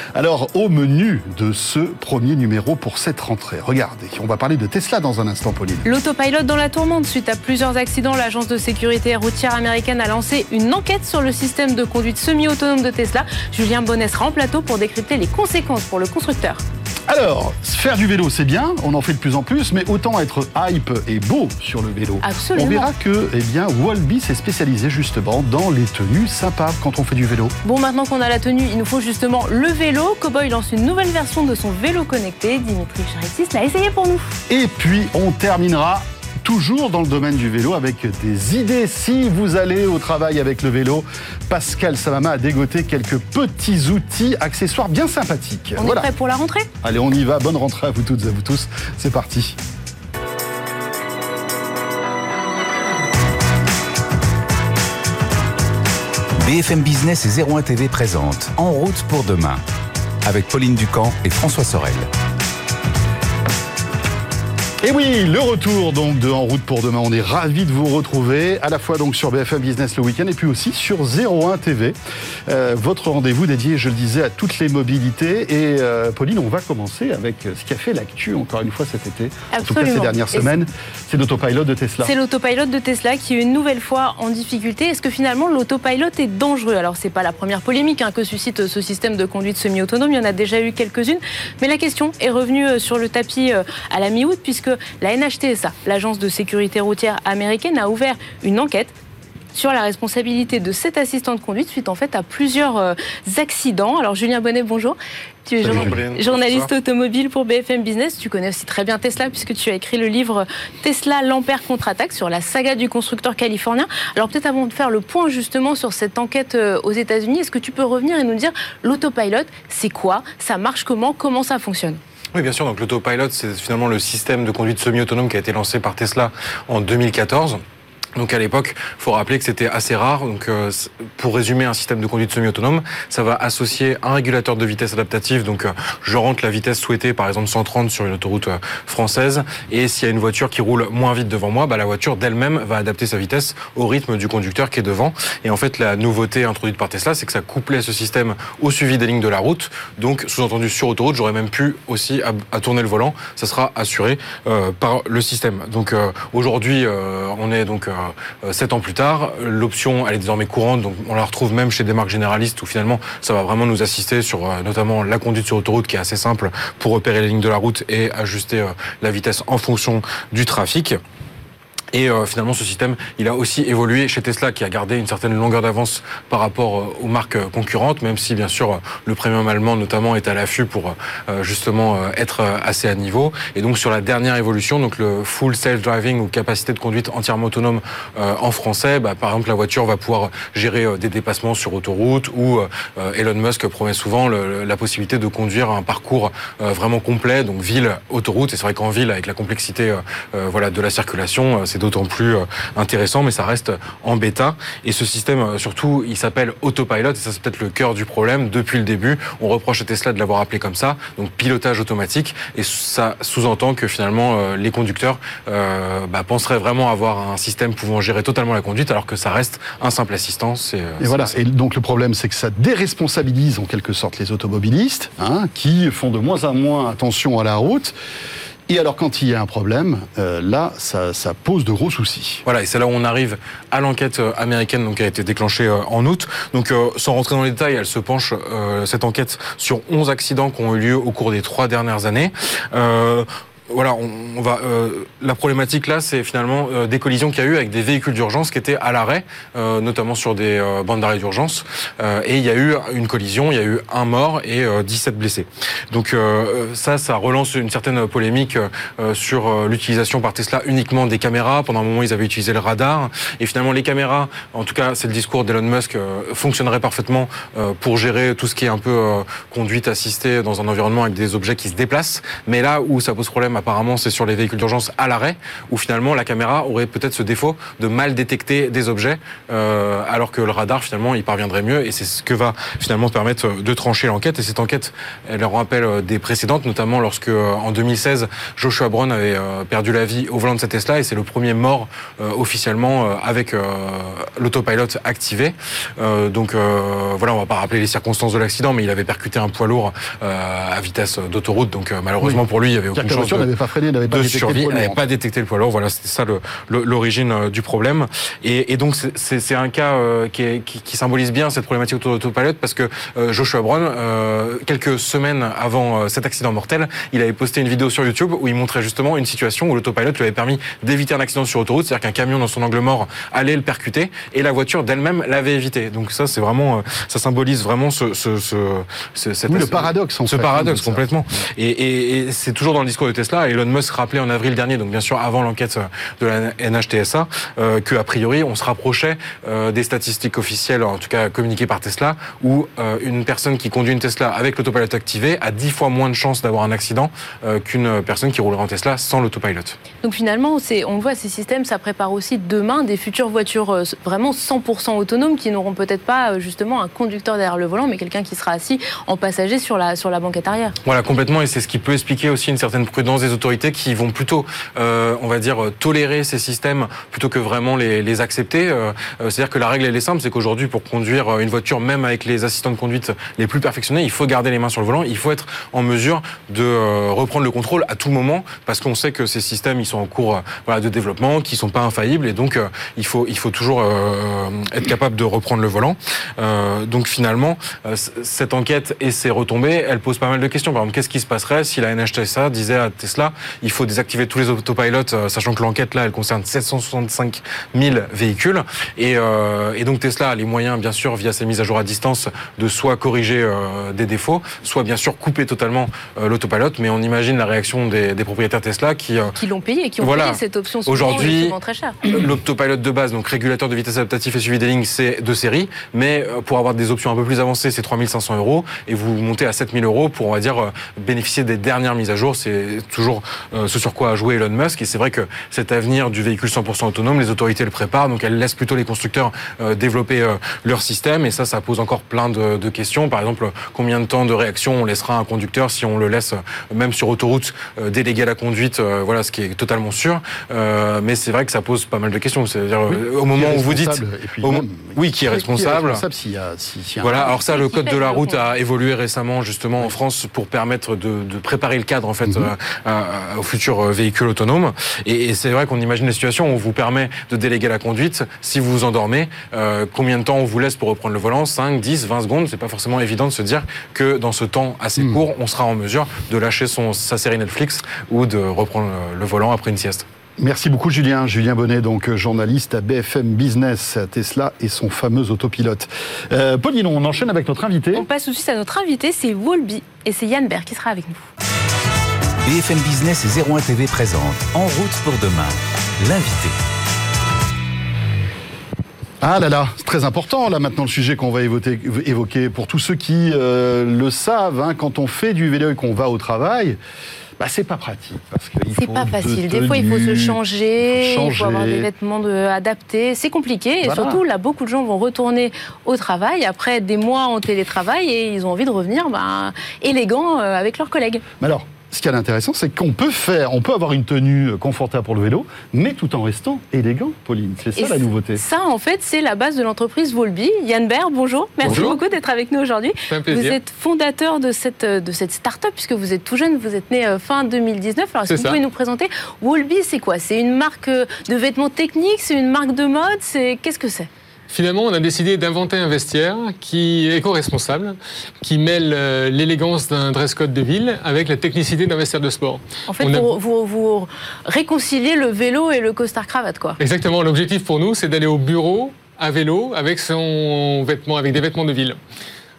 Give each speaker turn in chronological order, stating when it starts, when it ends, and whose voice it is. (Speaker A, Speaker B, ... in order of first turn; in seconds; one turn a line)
Speaker A: 0.1-5.8
Speaker B: 5.8-16.6
Speaker A: 17.1-27.5
Speaker B: 22.2-22.9
Speaker B: 27.6-34.3
Speaker A: 34.5-46.1
Speaker B: 45.8-46.7
Speaker A: 46.8-49.6
Speaker C: 56.4-59.6
Speaker C: 60.2-62.1
Speaker A: 64.8-72.0
Speaker A: 72.5-82.1
Speaker B: 79.5-80.5
Speaker B: 82.0-98.9
Speaker B: 99.5-122.0
Speaker D: 105.6-106.7
Speaker A: 105.7-106.0
Speaker D: 122.3-127.6
Speaker D: 128.2-171.0
Speaker D: 171.9-221.3
Speaker A: 221.0-227.9
Speaker A: 228.7-232.4
Speaker D: 232.4-303.5
Speaker A: 302.2-305.0
Speaker D: 304.1-349.8
Speaker A: 329.5-331.0
Speaker B: 350.0-360.7
Speaker D: 360.8-409.3
Speaker B: 409.4-412.0
Speaker D: 410.0-446.0
Speaker A: 442.9-447.3
Speaker D: 447.0-470.0
Speaker B: 447.2-448.4
Speaker A: 452.2-452.5
Speaker A: 470.4-478.0
Speaker B: 477.9-481.3
Speaker C: 482.4-486.6
Speaker A: 489.2-496.8
Speaker A: 497.4-501.9
Speaker B: 498.8-511.2
Speaker A: 503.8-504.2
Speaker A: 511.4-518.4
Speaker B: 517.8-534.1
Speaker A: 521.6-521.9
Speaker E: 521.7-522.0
Speaker E: 523.1-523.6
Speaker E: 528.3-528.6
Speaker E: 534.5-543.3
Speaker B: 542.9-546.8
Speaker E: 546.8-552.0